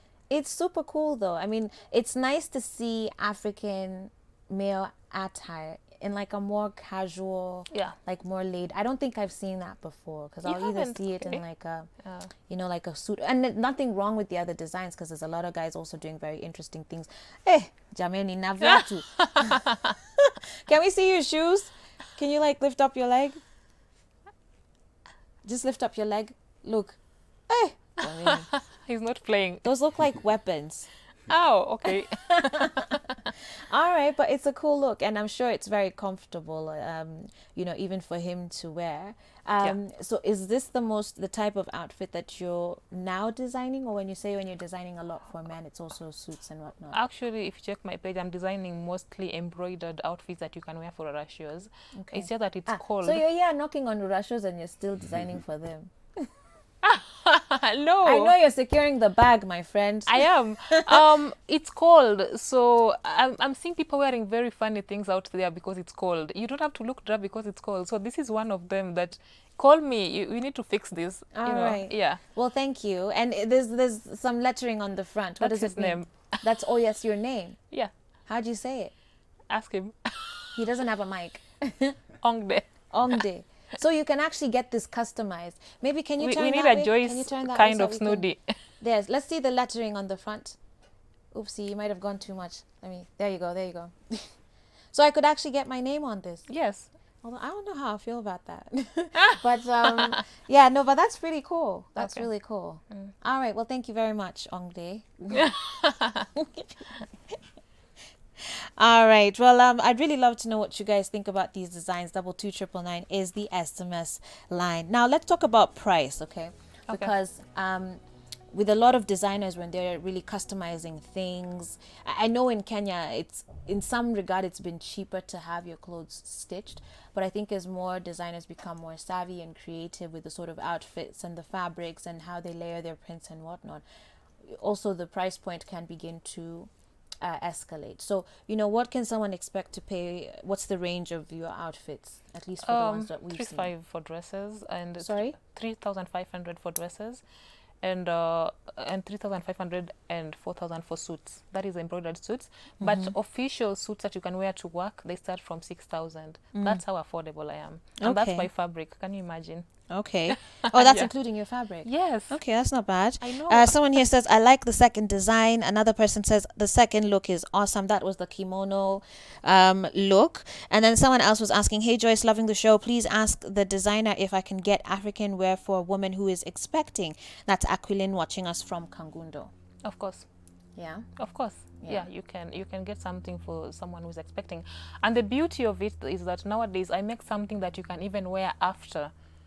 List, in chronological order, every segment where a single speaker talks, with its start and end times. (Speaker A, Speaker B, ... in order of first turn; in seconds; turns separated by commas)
Speaker A: 0.3-11.9, Speaker B: 10.4-11.4, Speaker B: 12.0-12.3, Speaker A: 12.5-23.4, Speaker B: 18.7-19.5, Speaker A: 25.4-27.0, Speaker A: 27.5-28.5, Speaker B: 28.2-29.7, Speaker A: 29.6-30.9, Speaker B: 31.3-33.2, Speaker A: 33.6-47.0, Speaker B: 46.9-53.2, Speaker A: 51.9-56.3, Speaker B: 56.8-58.3, Speaker A: 58.0-61.0, Speaker B: 60.1-72.2, Speaker A: 71.3-77.6, Speaker B: 75.4-76.4, Speaker A: 78.3-78.9, Speaker B: 79.5-80.5, Speaker A: 80.5-82.0, Speaker B: 82.2-83.2, Speaker A: 82.9-88.3, Speaker B: 86.2-88.4, Speaker A: 88.8-90.6, Speaker A: 91.3-94.3, Speaker A: 94.9-96.5, Speaker B: 96.5-96.9, Speaker A: 97.2-105.6, Speaker B: 102.0-102.3, Speaker B: 105.3-106.2, Speaker A: 106.3-106.9, Speaker A: 108.4-118.0, Speaker A: 118.5-133.8, Speaker A: 134.4-136.7, Speaker A: 137.2-143.7, Speaker B: 142.6-147.2, Speaker A: 145.0-145.3, Speaker B: 147.8-159.7, Speaker A: 152.8-153.1, Speaker A: 156.5-156.8, Speaker A: 158.0-158.5, Speaker A: 159.9-179.5, Speaker B: 160.3-161.1, Speaker B: 161.8-162.4, Speaker B: 163.2-163.7, Speaker B: 179.8-180.3, Speaker A: 180.8-181.1, Speaker B: 181.2-189.1, Speaker A: 181.8-182.1